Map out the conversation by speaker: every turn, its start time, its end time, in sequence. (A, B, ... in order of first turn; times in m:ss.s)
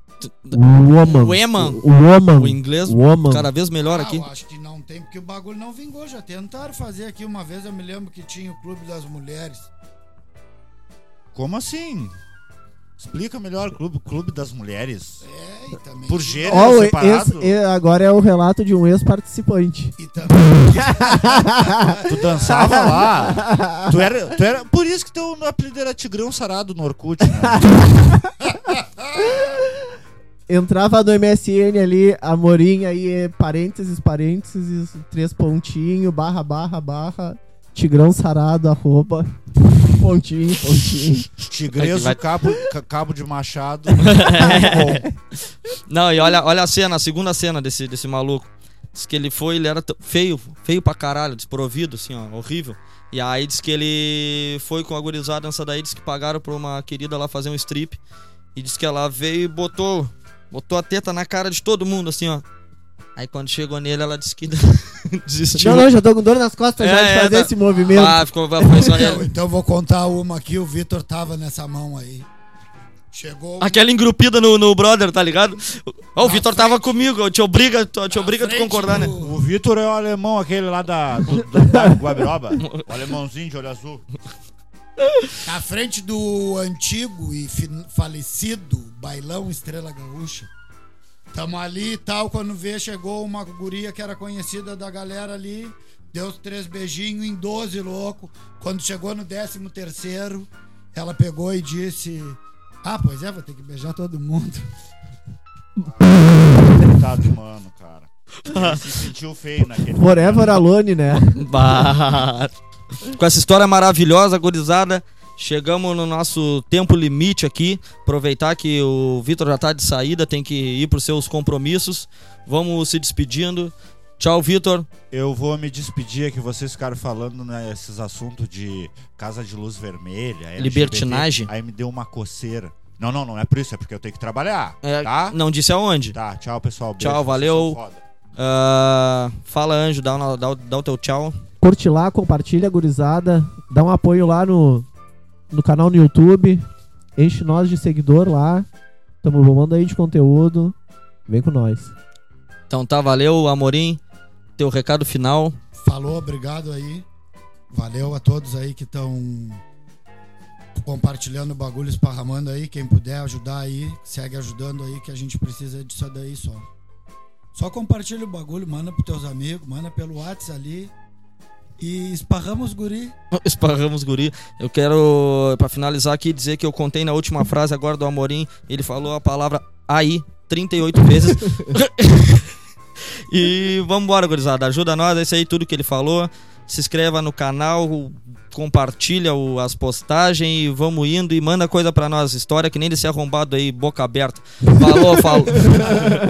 0:00.2-0:01.8 A
0:00.5-0:03.5 B
0:02.4-0:04.3 A
0:03.8-0:09.7 C
0:11.4-0:12.2 D
0:13.0-0:15.2 D
0:15.2-0:16.8 C
0:16.1-0:17.6 D
0:16.5-0:20.0 B
0:20.0-0:23.0 C
0:20.7-0:24.0 B
0:22.0-0:28.1 D
0:27.4-0:28.5 B
0:29.2-0:29.8 B
0:30.5-0:41.3 B
0:41.4-0:45.1 D
0:41.8-0:42.3 A
0:44.0-0:45.0 A
0:45.9-0:58.0 A
0:58.6-1:02.4 A
1:03.2-1:05.9 A
1:05.6-1:08.2 B
1:06.8-1:09.3 A
1:08.6-1:12.3 C
1:13.1-1:13.8 C
1:13.6-1:19.1 A
1:16.2-1:16.9 C
1:18.1-1:19.4 C
1:19.1-1:24.0 D
1:25.4-1:30.5 C
1:31.3-1:44.7 C
1:45.8-1:50.7 D
1:48.4-1:48.8 A
1:49.9-1:51.8 B
1:51.4-1:52.5 A
1:53.0-2:04.9 A
2:05.1-2:15.4 D
2:10.6-2:11.5 A
2:14.8-2:16.2 A
2:16.1-2:18.0 D
2:17.0-2:17.8 A
2:18.4-2:21.4 A
2:21.6-2:24.9 B
2:25.5-2:28.7 B
2:29.2-2:30.8 B
2:31.3-2:31.9 B
2:32.7-2:34.0 A
2:34.6-2:35.6 A
2:35.8-2:37.0 C
2:37.7-2:39.6 C
2:40.8-2:46.7 C
2:47.5-2:50.9 C
2:51.8-2:53.2 C
2:53.3-3:02.5 A
3:03.3-3:16.1 A
3:15.6-3:16.1 B